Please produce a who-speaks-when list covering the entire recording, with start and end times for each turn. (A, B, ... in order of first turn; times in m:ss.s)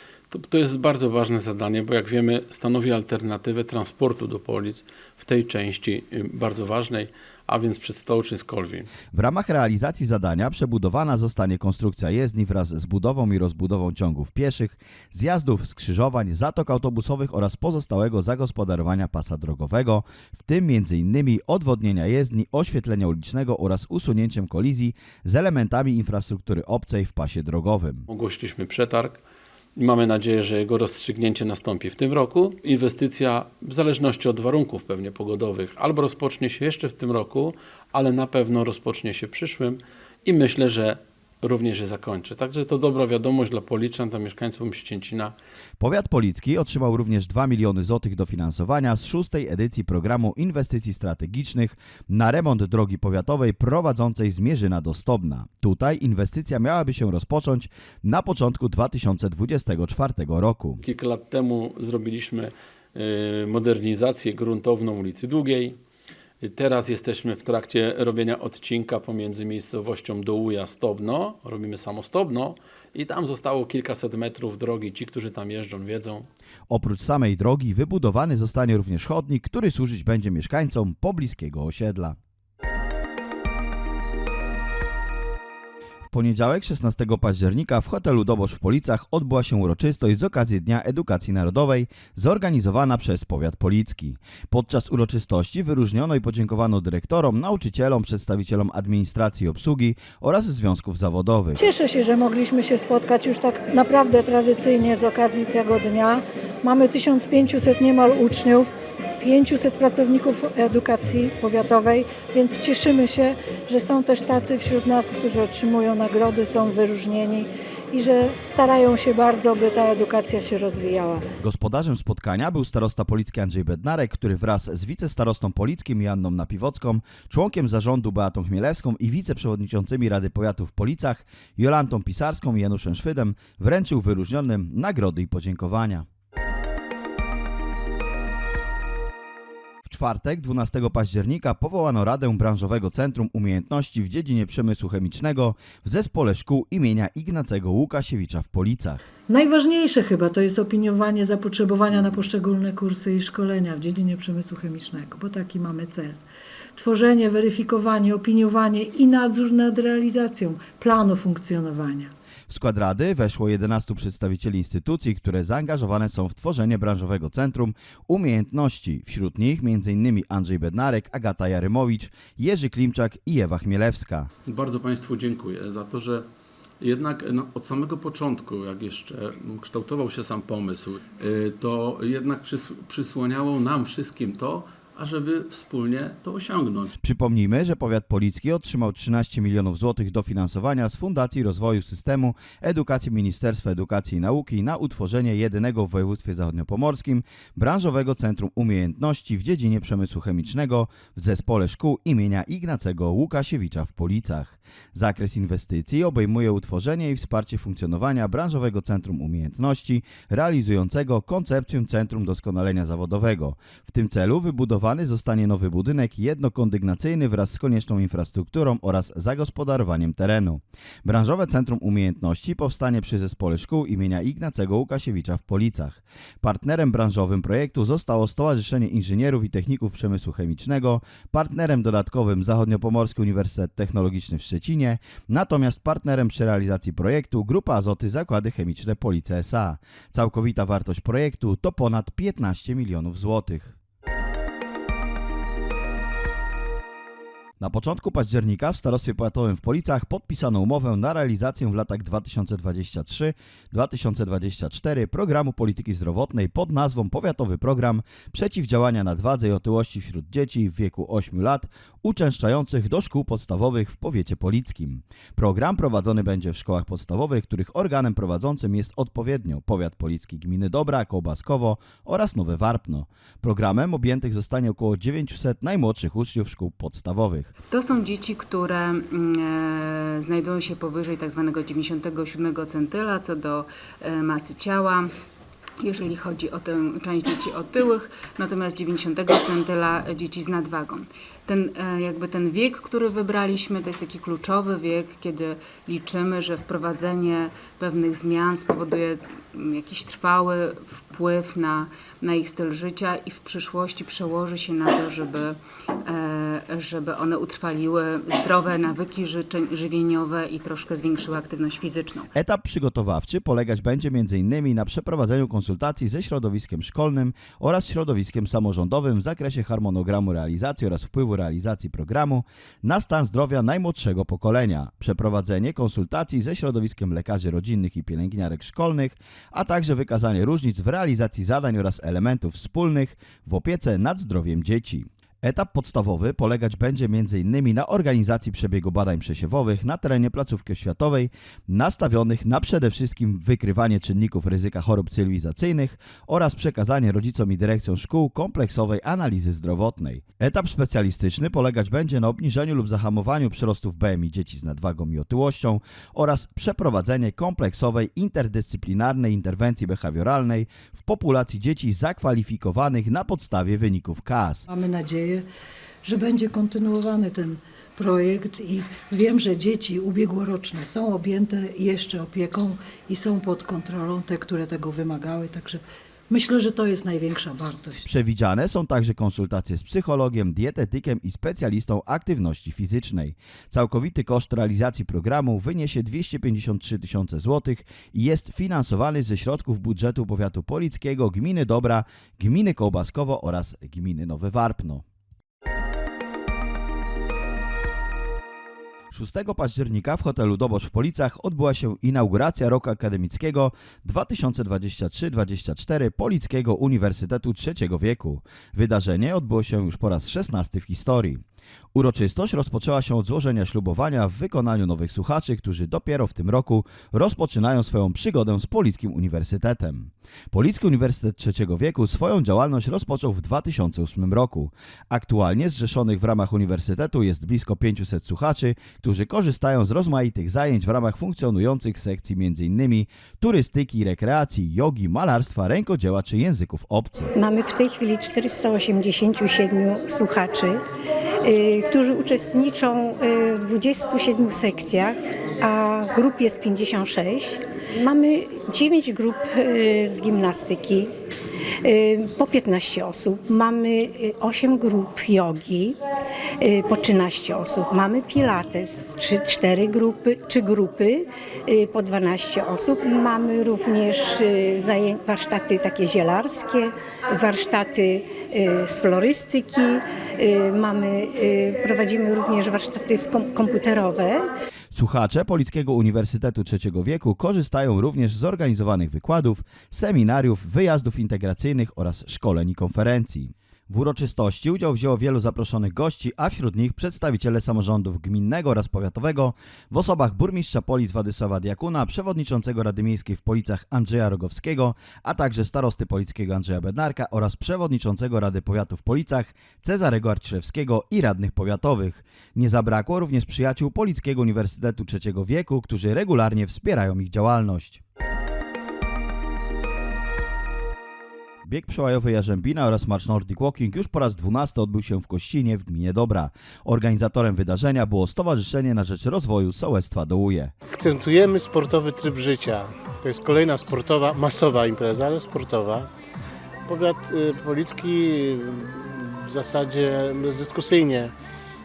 0:00.3-0:08.9 A
0:09.1-0:28.0 B
0:28.1-0:29.2 A
0:29.8-0:45.3 A
0:45.8-1:00.8 B
1:00.8-1:05.8 A
1:06.4-1:16.3 A
1:16.7-1:22.2 B
1:26.1-1:41.6 B
1:41.6-2:01.2 C
2:01.4-2:16.0 B
2:19.8-2:29.0 B
2:29.3-2:36.2 C
2:36.8-2:42.1 C
2:42.5-2:54.3 B
2:54.5-2:56.2 A
2:56.8-3:06.9 A
3:07.0-4:03.8 B
4:07.6-4:37.5 B
4:37.7-4:45.1 D
4:45.8-5:12.3 D
5:12.4-6:04.6 B
6:04.7-6:05.4 C
6:06.0-6:18.1 C
6:18.0-6:35.0 B
6:39.1-6:51.4 B
6:51.9-7:17.3 B
7:17.4-7:20.8 E
7:21.4-7:31.1 E
7:31.8-7:36.0 E
7:36.6-7:54.4 E
7:54.9-8:28.0 B
8:31.6-8:40.7 B
8:40.9-8:46.1 F
8:46.9-8:51.3 F